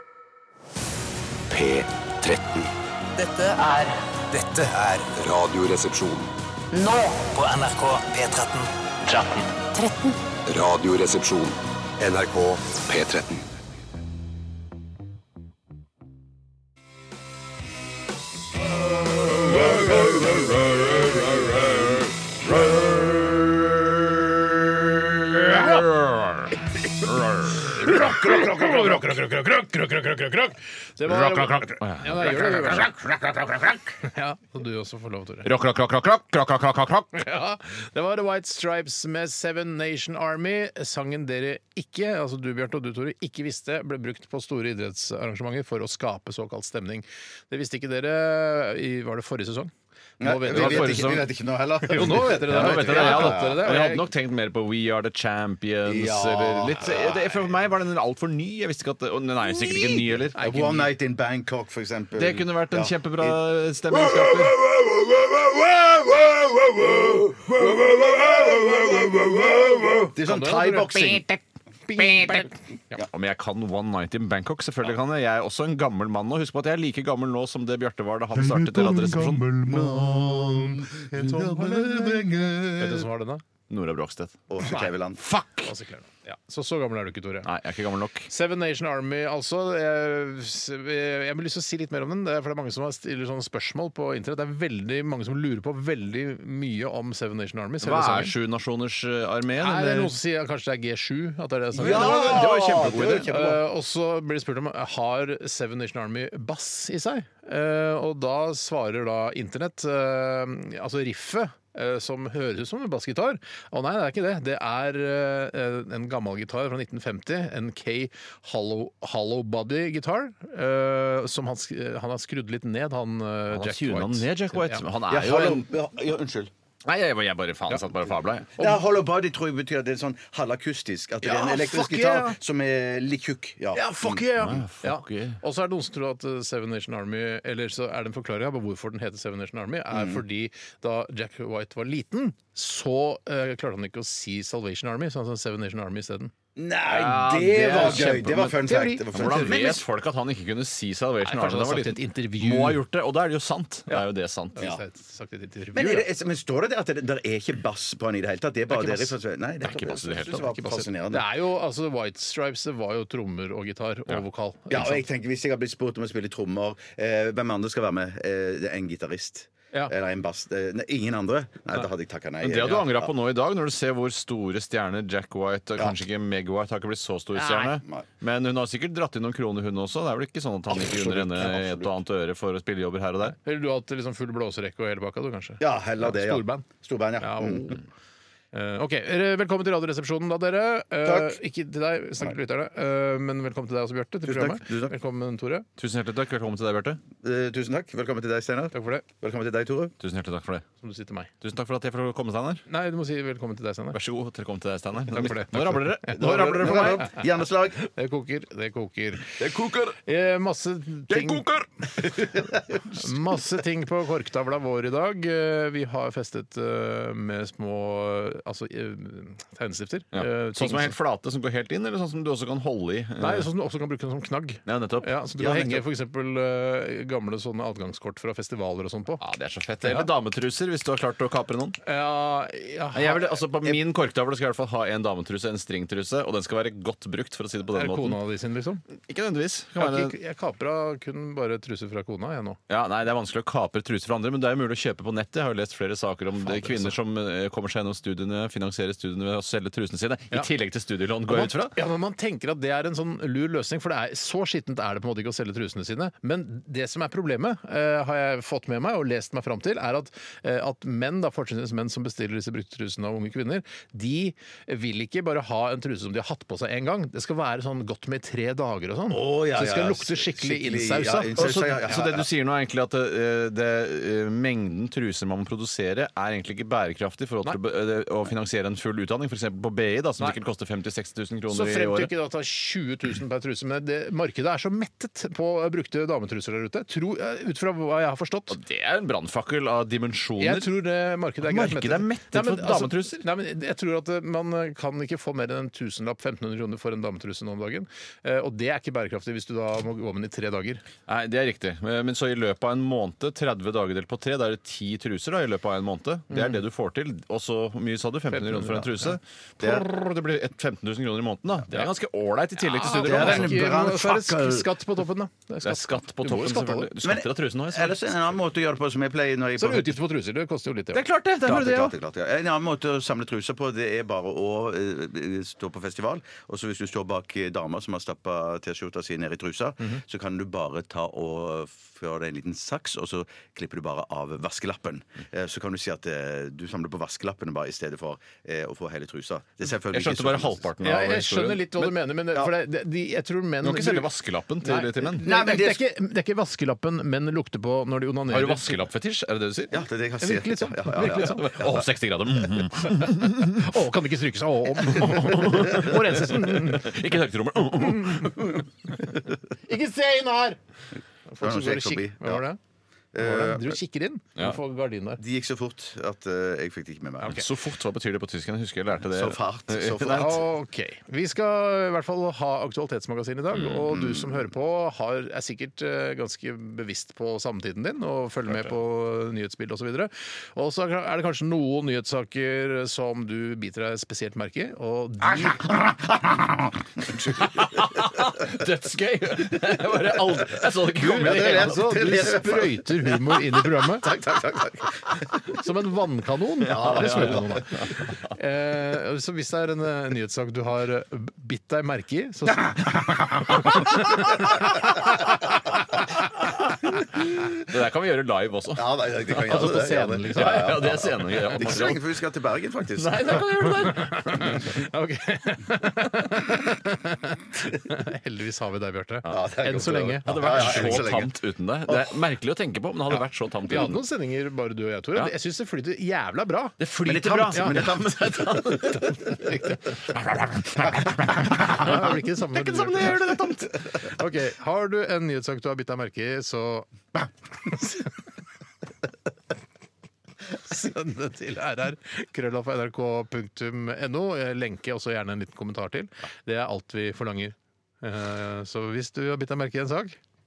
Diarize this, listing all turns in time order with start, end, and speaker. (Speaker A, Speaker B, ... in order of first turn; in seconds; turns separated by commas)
Speaker A: 1.5-2.7, Speaker B: 3.2-5.1, Speaker A: 5.1-6.3, Speaker B: 6.7-9.9, Speaker A: 10.5-13.5, Speaker C: 19.3-23.7, Speaker C: 25.1-26.5, Speaker C: 27.0-27.9, Speaker D: 27.8-33.0, Speaker C: 31.1-33.7, Speaker D: 34.0-35.5, Speaker C: 35.4-37.2, Speaker D: 37.1-51.1, Speaker E: 50.2-53.7, Speaker C: 50.5-51.3, Speaker D: 51.9-54.1, Speaker C: 52.5-60.4, Speaker E: 55.9-57.5, Speaker E: 59.5-71.4, Speaker D: 60.4-60.9, Speaker C: 62.2-64.6, Speaker D: 70.2-71.3, Speaker D: 71.9-73.0, Speaker E: 72.0-73.1, Speaker C: 73.1-79.5, Speaker E: 78.4-83.1, Speaker D: 81.1-81.9, Speaker D: 82.8-83.4, Speaker C: 83.7-84.4, Speaker E: 84.5-85.2, Speaker D: 84.6-84.9, Speaker C: 85.2-85.7, Speaker D: 85.7-87.5, Speaker C: 87.4-88.3, Speaker D: 88.3-98.3, Speaker C: 97.8-100.1, Speaker D: 99.6-102.5, Speaker C: 101.8-103.3, Speaker E: 101.8-103.6, Speaker D: 103.1-124.8, Speaker C: 123.5-125.6, Speaker E: 125.1-126.5, Speaker C: 126.8-128.5, Speaker E: 128.6-134.3, Speaker D: 131.2-132.4, Speaker D: 133.7-146.3, Speaker C: 134.4-135.4, Speaker E: 139.9-140.2, Speaker E: 146.6-149.8, Speaker C: 146.9-148.6, Speaker D: 147.8-149.5, Speaker C: 149.1-154.6, Speaker D: 151.2-152.8, Speaker D: 154.6-156.1, Speaker E: 155.7-161.3, Speaker D: 158.7-159.1, Speaker C: 159.6-160.5, Speaker D: 160.3-165.0, Speaker E: 164.7-173.1, Speaker C: 172.4-183.4, Speaker D: 177.4-177.8, Speaker E: 180.7-181.9, Speaker D: 183.2-186.7, Speaker E: 185.6-187.8, Speaker D: 187.2-187.8, Speaker D: 188.5-195.7, Speaker E: 191.0-191.4, Speaker E: 194.3-194.9, Speaker C: 195.8-197.0, Speaker E: 197.2-199.9, Speaker D: 198.7-199.1, Speaker C: 200.0-200.7, Speaker D: 200.8-201.3, Speaker C: 201.4-202.6, Speaker D: 202.7-204.0, Speaker C: 203.9-207.1, Speaker D: 205.1-207.2, Speaker E: 206.2-207.8, Speaker D: 207.8-209.4, Speaker E: 209.4-210.0, Speaker D: 209.9-211.4, Speaker C: 211.1-212.4, Speaker D: 212.9-220.9, Speaker C: 220.1-223.5, Speaker D: 223.2-229.2, Speaker C: 224.7-225.1, Speaker E: 225.4-225.9, Speaker C: 229.2-231.8, Speaker D: 231.8-233.5, Speaker C: 232.9-238.2, Speaker D: 237.7-238.8, Speaker C: 239.1-240.2, Speaker D: 239.8-242.6, Speaker C: 242.7-251.7, Speaker D: 246.4-246.9, Speaker D: 251.2-271.9, Speaker E: 269.1-272.3, Speaker C: 271.4-282.1, Speaker D: 281.5-288.6, Speaker C: 288.5-290.7, Speaker D: 290.4-300.8, Speaker C: 291.4-293.2, Speaker C: 301.1-313.6, Speaker D: 306.3-306.6, Speaker D: 308.3-309.1, Speaker E: 309.6-309.9, Speaker D: 312.7-316.9, Speaker E: 312.9-314.7, Speaker C: 315.6-318.3, Speaker E: 317.0-320.0, Speaker D: 319.6-321.0, Speaker C: 320.9-321.9, Speaker E: 321.4-340.7, Speaker C: 339.9-341.9, Speaker D: 340.8-344.1, Speaker C: 343.6-345.2, Speaker D: 344.6-348.8, Speaker E: 345.2-345.9, Speaker C: 348.3-349.8, Speaker E: 349.7-351.9, Speaker D: 350.2-351.4, Speaker C: 351.0-353.7, Speaker D: 353.5-357.0, Speaker C: 354.9-358.4, Speaker D: 357.9-358.3, Speaker D: 359.7-360.6, Speaker D: 361.3-362.6, Speaker E: 361.4-362.4, Speaker E: 363.1-363.8, Speaker D: 363.2-365.2, Speaker E: 365.2-367.4, Speaker C: 367.2-370.4, Speaker E: 369.0-370.4, Speaker D: 370.1-385.8, Speaker C: 373.5-373.9, Speaker E: 373.9-374.5, Speaker E: 385.4-388.0, Speaker C: 387.4-391.8, Speaker E: 390.9-395.3, Speaker D: 391.1-394.1, Speaker D: 395.6-397.8, Speaker E: 396.6-397.6, Speaker C: 396.9-398.0, Speaker D: 398.4-402.8, Speaker E: 402.7-403.7, Speaker D: 403.6-405.4, Speaker C: 407.5-408.9, Speaker E: 408.8-413.4, Speaker D: 409.5-410.8, Speaker C: 410.4-412.0, Speaker C: 412.9-414.7, Speaker D: 413.9-421.0, Speaker E: 419.3-421.3, Speaker C: 420.3-424.0, Speaker E: 421.9-422.1, Speaker D: 423.7-426.8, Speaker C: 426.8-429.5, Speaker E: 427.1-429.0, Speaker D: 427.5-427.8, Speaker D: 429.2-429.8, Speaker C: 430.1-434.1, Speaker D: 431.6-436.9, Speaker D: 440.6-450.2